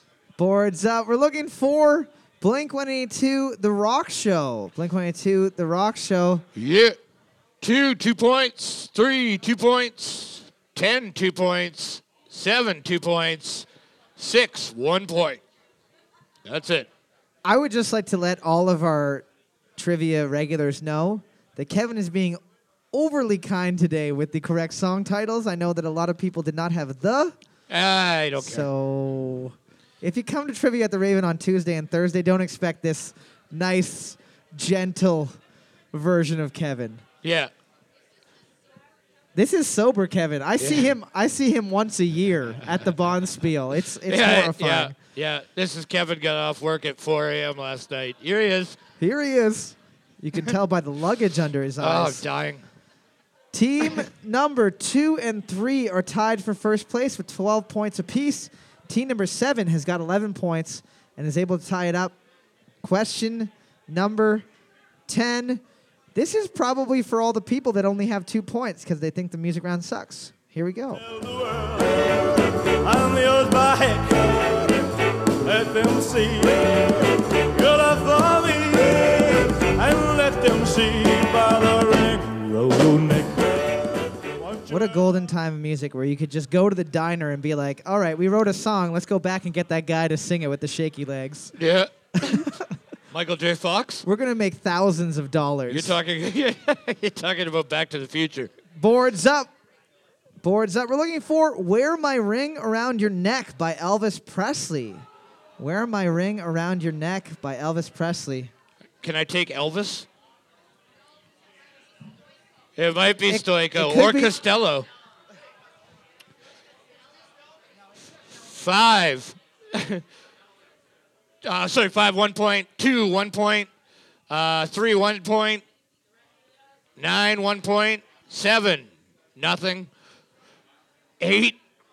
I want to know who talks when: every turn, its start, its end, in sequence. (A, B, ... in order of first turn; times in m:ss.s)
0:00.4-0:06.5 A
0:06.6-0:07.0 B
0:07.6-0:13.6 B
0:14.2-0:15.4 B
0:16.4-0:16.9 B
0:17.4-0:19.2 A
0:19.8-0:22.4 A
0:22.9-0:27.4 A
0:27.7-0:28.7 B
0:28.4-0:35.4 A
0:35.9-0:37.0 A
0:37.2-0:37.5 B
0:39.3-0:45.0 A
0:40.6-0:40.9 B
0:44.0-0:48.8 B
0:49.0-0:52.2 A
0:51.8-0:52.6 B
0:53.5-1:02.1 A
1:02.8-1:04.4 A
1:05.1-1:05.6 A
1:06.1-1:11.0 A
1:11.1-1:12.0 C
1:12.8-1:14.7 C
1:15.4-1:23.8 C
1:24.4-1:24.8 C
1:24.7-1:31.5 A
1:31.6-1:32.5 B
1:32.2-1:32.7 A
1:33.1-1:34.0 B
1:34.0-1:36.0 A
1:35.7-1:38.5 B
1:38.8-1:39.5 A
1:40.4-1:45.0 A
1:45.6-1:48.5 A
1:49.0-1:50.1 B
1:52.8-1:54.9 B
1:53.2-1:54.3 A
1:58.3-2:00.0 B
2:01.4-2:03.7 B
2:04.3-2:05.6 B
2:07.0-2:09.9 B
2:11.2-2:11.6 B